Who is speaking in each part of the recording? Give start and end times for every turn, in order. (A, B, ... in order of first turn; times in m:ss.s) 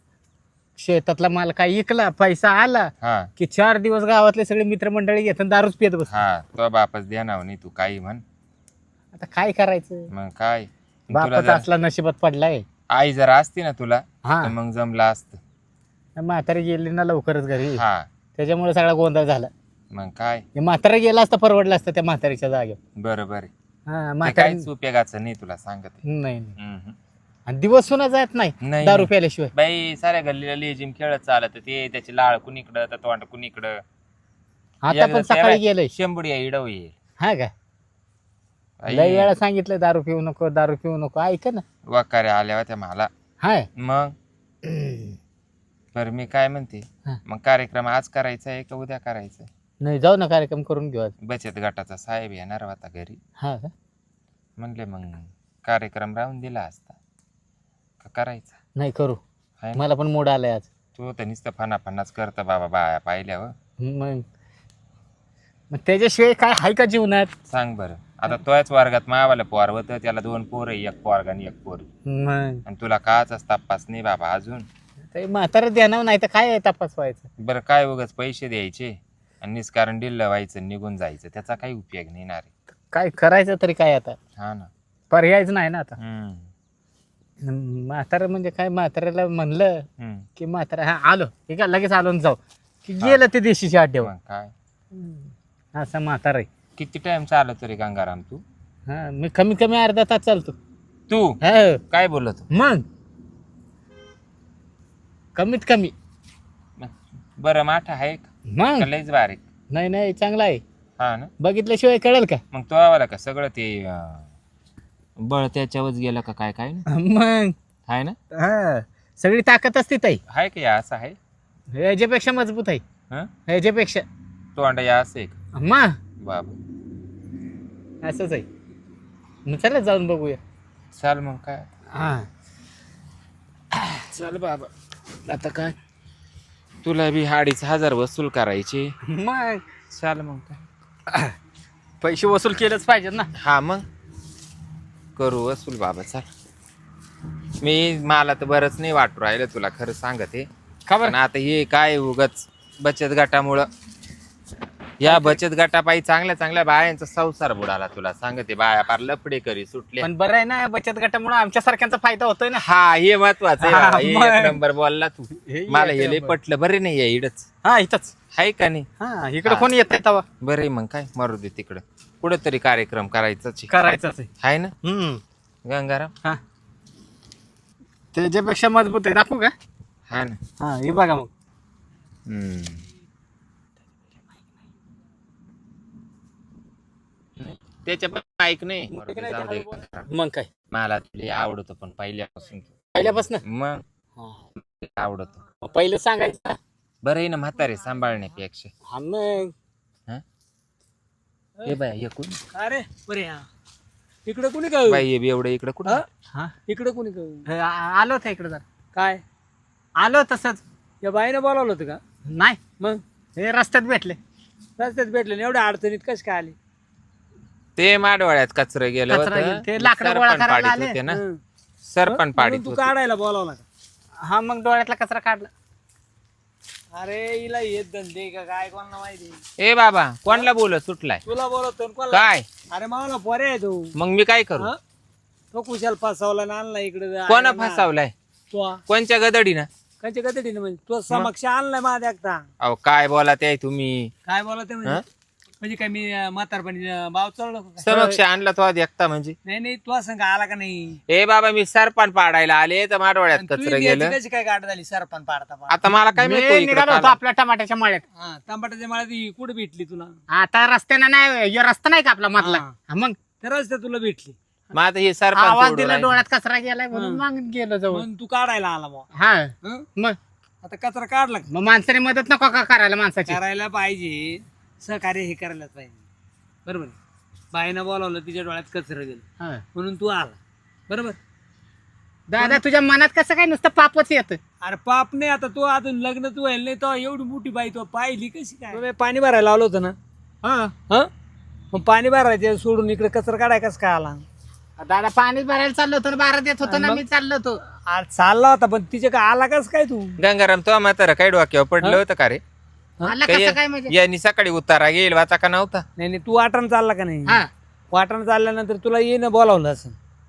0:00.8-0:06.1 A
0:03.0-0:03.3 B
0:06.1-0:08.2 B
0:09.1-0:10.1 A
0:10.1-0:11.7 B
0:11.1-0:12.6 A
0:12.9-0:15.4 B
0:14.2-0:14.5 A
0:16.2-0:17.8 A
0:17.7-0:18.1 B
0:18.4-0:19.5 A
0:19.9-0:20.4 B
0:20.6-0:22.8 A
0:23.0-0:23.5 B
0:23.9-0:24.6 A
0:24.2-0:26.0 B
0:26.0-0:26.6 A
0:26.6-0:27.0 B
0:27.5-0:29.5 A
0:28.6-0:33.8 B
0:34.8-0:35.9 A
0:34.9-0:36.9 B
0:37.2-0:37.5 A
0:38.8-0:39.4 B
0:38.9-0:41.6 A
0:41.9-0:43.1 B
0:43.4-0:43.7 A
0:43.8-0:44.1 B
0:44.6-0:45.1 A
0:45.9-0:49.5 B
0:49.8-0:51.1 A
0:51.2-0:53.2 B
0:53.4-0:53.7 A
0:54.6-0:57.0 B
0:58.0-0:58.5 B
0:58.8-0:59.2 A
0:59.8-1:00.7 A
1:00.9-1:03.5 B
1:03.8-1:04.2 A
1:05.7-1:07.3 A
1:07.5-1:11.9 B
1:12.1-1:12.6 A
1:12.6-1:14.7 B
1:15.1-1:17.2 A
1:17.4-1:22.5 B
1:22.9-1:24.2 A
1:24.4-1:24.7 B
1:25.1-1:26.0 A
1:26.0-1:26.5 B
1:27.4-1:29.8 A
1:30.0-1:30.3 B
1:30.4-1:34.1 A
1:34.0-1:34.5 B
1:35.8-1:36.5 A
1:36.8-1:38.4 B
1:38.9-1:40.6 A
1:41.1-1:41.4 B
1:41.4-1:41.8 A
1:41.9-1:42.4 B
1:42.5-1:42.8 A
1:45.4-1:45.9 A
1:46.8-1:49.4 B
1:48.5-1:48.9 A
1:49.7-1:50.6 A
1:51.0-1:51.3 B
1:51.4-1:52.4 A
1:52.5-1:54.3 B
1:55.2-1:56.8 B
1:56.9-1:57.5 A
1:57.9-1:58.2 B
1:58.3-2:00.2 A
2:00.3-2:01.2 B
2:01.7-2:02.8 A
2:03.5-2:04.0 A
2:04.6-2:05.4 B
2:05.5-2:06.0 A
2:06.2-2:06.6 B
2:08.0-2:08.4 A
2:09.4-2:10.4 A
2:10.9-2:11.6 B
2:11.9-2:12.3 A
2:14.0-2:14.7 B
2:15.3-2:15.7 B
2:16.8-2:18.9 B
2:19.0-2:19.6 A
2:19.9-2:20.6 B
2:21.1-2:21.3 A
2:22.0-2:23.3 A
2:23.4-2:23.8 B
2:25.2-2:26.2 B
2:27.6-2:30.5 B
2:30.9-2:31.2 A
2:31.0-2:33.7 B
2:35.0-2:40.1 B
2:35.0-2:35.4 A
2:40.0-2:42.6 A
2:42.6-2:47.5 B
2:43.6-2:44.6 A
2:45.5-2:46.3 A
2:47.6-2:48.1 A
2:48.3-2:48.9 B
2:49.0-2:50.2 A
2:49.4-2:49.7 B
2:50.4-2:53.7 B
2:53.7-2:54.3 A
2:54.4-2:54.7 B
2:54.8-2:55.2 A
2:55.6-2:56.1 B
2:58.1-2:59.5 A
3:00.1-3:00.4 B
3:00.6-3:01.3 A
3:02.3-3:02.8 B
3:07.4-3:10.1 B
3:08.9-3:10.5 A
3:10.7-3:13.8 B
3:12.9-3:13.4 A
3:14.6-3:15.4 B
3:15.6-3:16.6 A
3:17.0-3:18.7 B
3:18.9-3:19.5 A
3:21.6-3:22.4 B
3:22.5-3:23.4 C
3:24.2-3:25.0 C
3:24.9-3:26.0 B
3:26.7-3:27.4 C
3:27.5-3:28.6 A
3:28.9-3:29.2 C
3:30.0-3:30.6 A
3:31.0-3:32.0 C
3:32.3-3:32.6 A
3:33.4-3:34.2 A
3:34.8-3:36.6 C
3:37.8-3:41.2 B
3:39.1-3:41.0 A
3:41.1-3:41.4 C
3:41.8-3:42.9 B
3:42.1-3:43.6 C
3:44.2-3:45.5 A
3:46.9-3:49.4 C
3:49.6-3:51.2 B
3:51.2-3:53.9 C
3:52.1-3:52.4 B
3:53.9-3:54.7 B
3:55.5-3:57.9 C
3:57.3-3:58.1 B
3:58.5-3:58.8 C
3:58.9-3:59.7 B
4:00.0-4:02.4 C
4:02.6-4:04.1 B
4:04.3-4:05.0 C
4:05.6-4:07.9 C
4:07.8-4:09.4 B
4:07.8-4:08.2 A
4:09.4-4:11.0 C
4:11.1-4:14.2 B
4:13.3-4:15.8 C
4:15.7-4:17.2 B
4:16.1-4:18.0 A
4:18.2-4:20.2 C
4:20.3-4:23.2 A
4:22.4-4:22.7 C
4:23.4-4:24.3 C
4:24.7-4:26.2 B
4:25.3-4:28.0 A
4:26.9-4:27.2 C
4:27.9-4:29.1 C
4:29.1-4:30.2 A
4:30.6-4:31.4 C
4:31.5-4:33.4 A
4:33.3-4:36.0 C
4:36.6-4:36.9 C
4:37.5-4:39.2 C
4:39.7-4:40.4 C
4:40.9-4:41.2 C
4:42.3-4:44.4 A
4:44.6-4:49.9 C
4:50.4-4:50.7 A
4:51.7-4:54.2 C
4:54.8-4:57.6 A
4:56.6-4:57.0 C
4:57.9-5:00.1 C
5:00.2-5:02.4 B
5:03.0-5:03.9 A
5:03.3-5:05.8 B
5:06.0-5:10.0 C